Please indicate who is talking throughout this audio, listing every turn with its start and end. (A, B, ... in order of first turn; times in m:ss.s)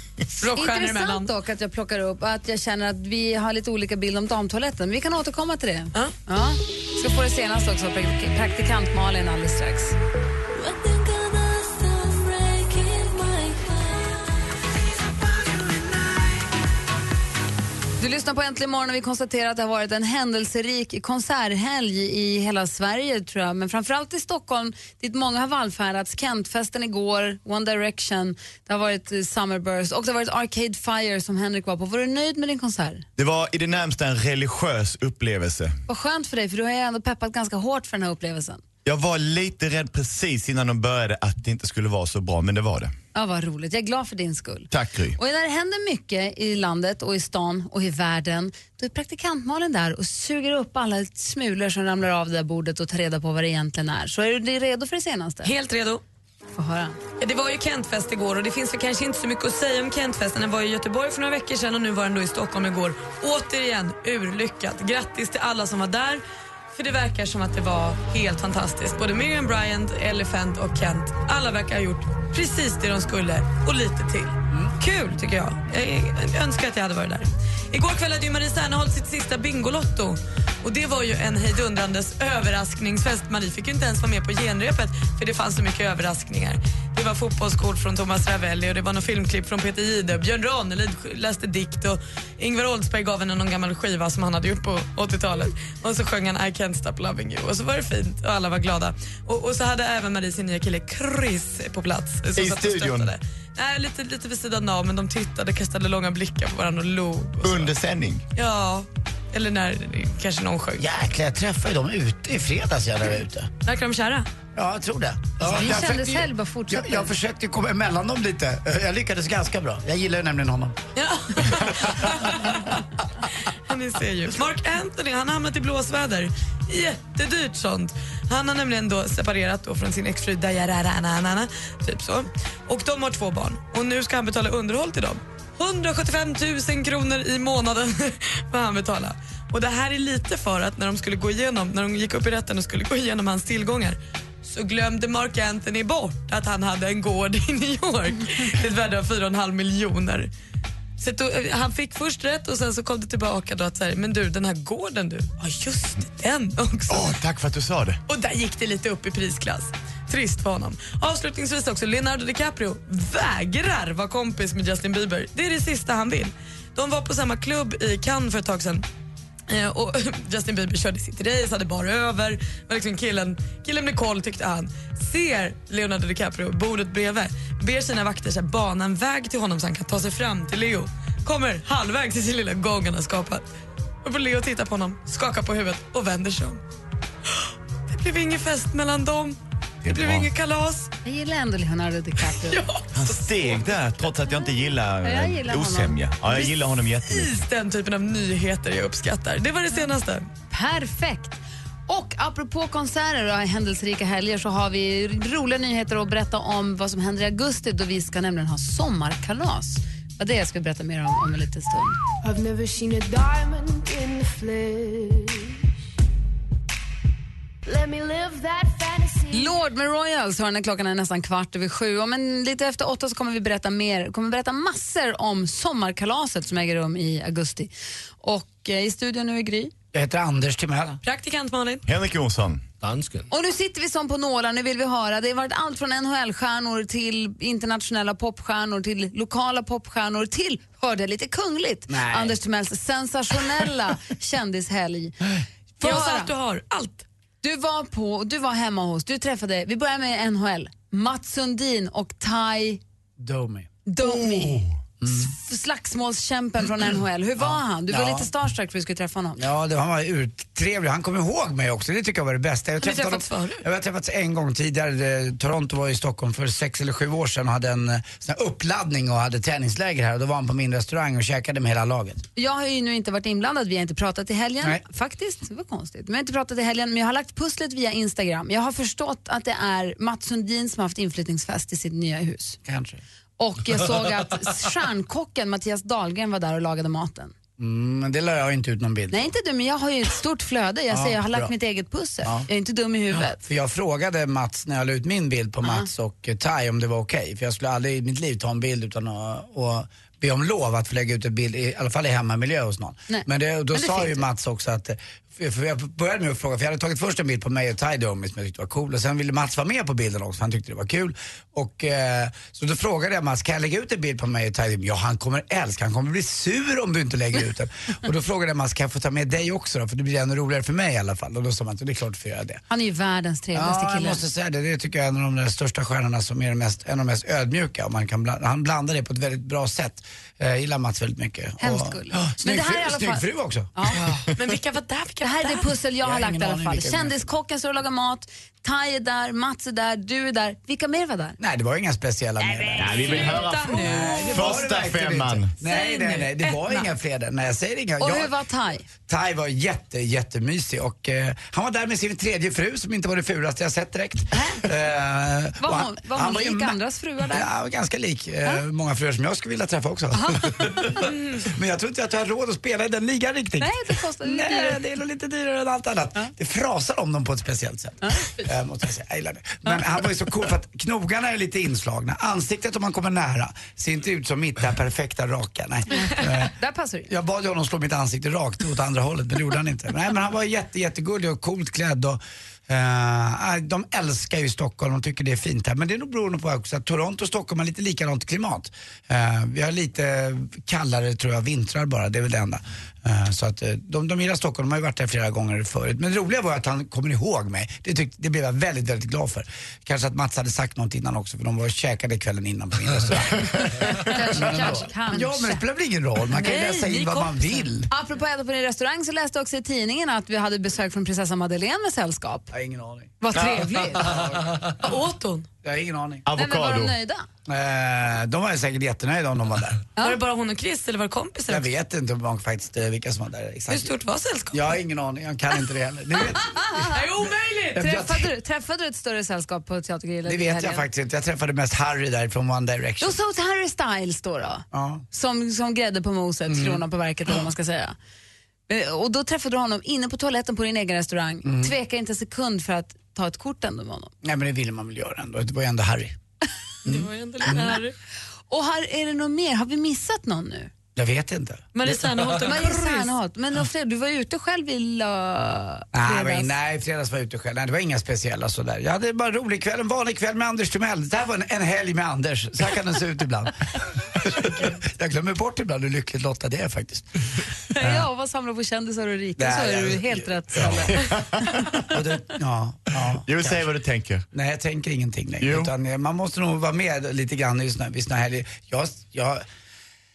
0:00.4-0:01.3 A
0:00.5-0:09.9 B
0:10.5-0:14.3 C
0:18.0-0:33.0 B
0:33.2-0:35.7 D
0:35.9-0:38.6 B
0:38.8-0:42.9 D
0:43.1-0:55.5 B
0:44.7-0:45.2 D
0:55.4-0:56.0 A
0:56.5-0:57.0 B
0:57.2-1:47.7 A
1:42.4-1:43.1 D
1:47.4-1:48.2 D
1:48.3-1:50.8 A
1:50.8-1:53.5 E
1:53.6-1:54.3 A
1:54.5-2:00.8 E
1:55.4-1:57.1 B
2:01.0-2:02.7 A
2:03.6-2:30.3 A
2:31.0-2:37.2 A
2:36.9-2:38.0 D
2:38.1-2:48.8 A
2:49.5-3:03.4 A
3:04.0-3:06.6 A
3:07.3-3:09.4 A
3:09.8-3:10.3 D
3:09.9-3:10.9 A
3:11.0-3:12.6 B
3:12.4-3:13.6 A
3:12.9-3:17.3 D
3:15.0-3:16.4 B
3:17.0-3:20.3 A
3:20.5-3:32.0 B
3:32.2-3:35.6 C
3:37.6-3:39.6 C
3:39.3-3:47.7 B
3:48.2-3:49.7 B
3:49.9-3:51.0 E
3:51.0-3:51.8 A
3:51.8-3:52.7 D
3:53.3-4:05.2 B
4:01.9-4:02.3 E
4:05.8-4:06.3 B
4:05.8-4:07.0 A
4:07.4-4:12.8 B
4:13.2-4:15.3 E
4:13.8-4:19.4 B
4:17.4-4:18.3 E
4:19.4-4:32.2 E
4:22.8-4:23.6 A
4:32.4-4:42.6 B
4:42.6-4:43.0 E
4:43.4-4:47.3 B
4:47.6-4:49.3 E
4:49.1-4:53.4 B
4:50.9-4:51.5 E
4:53.1-5:22.6 E
4:55.6-4:55.9 B
5:03.1-5:04.2 B
5:22.7-5:24.2 B
5:23.5-5:33.7 E
5:31.6-5:34.0 B
5:34.3-5:35.7 A
5:35.2-5:41.4 B
5:36.0-5:37.2 E
5:41.4-5:48.3 E
5:42.7-5:45.5 D
5:43.1-5:44.6 B
5:43.4-5:43.8 A
5:45.6-5:46.9 A
5:48.0-5:48.9 B
5:49.1-5:56.8 E
5:54.3-5:54.6 B
5:55.6-5:57.5 B
5:57.3-6:16.5 E
6:00.2-6:01.0 B
6:03.6-6:04.8 B
6:08.0-6:08.4 B
6:15.9-6:17.1 B
6:17.1-6:47.9 E
6:43.8-6:45.6 B
6:46.4-6:47.6 A
6:47.9-6:52.5 B
6:52.5-6:53.2 E
6:53.2-6:54.1 B
6:53.9-6:54.6 E
6:54.6-6:55.5 A
6:55.6-6:56.2 E
6:56.2-6:56.9 D
6:56.3-6:57.3 B
6:57.4-6:59.8 E
7:00.0-7:01.7 A
7:01.5-7:03.9 E
7:03.7-7:04.8 A
7:04.5-7:06.8 E
7:06.5-7:07.0 B
7:06.9-7:07.8 A
7:07.7-7:08.3 E
7:07.8-7:10.8 B
7:10.2-7:13.2 E
7:13.0-7:18.0 B
7:14.7-7:15.0 E
7:16.5-7:16.8 E
7:18.7-7:24.1 B
7:21.4-7:21.7 E
7:24.2-7:26.2 E
7:26.8-7:27.8 E
7:26.8-7:27.9 A
7:28.5-7:30.7 B
7:30.9-7:32.0 E
7:31.7-7:33.1 A
7:32.4-7:36.5 B
7:35.9-7:47.0 E
7:47.7-7:50.9 B
7:47.8-7:48.1 E
7:49.4-7:51.0 E
7:50.9-7:51.4 D
7:51.8-7:53.6 E
7:53.2-7:54.2 D
7:54.3-7:59.4 E
7:55.4-7:55.7 D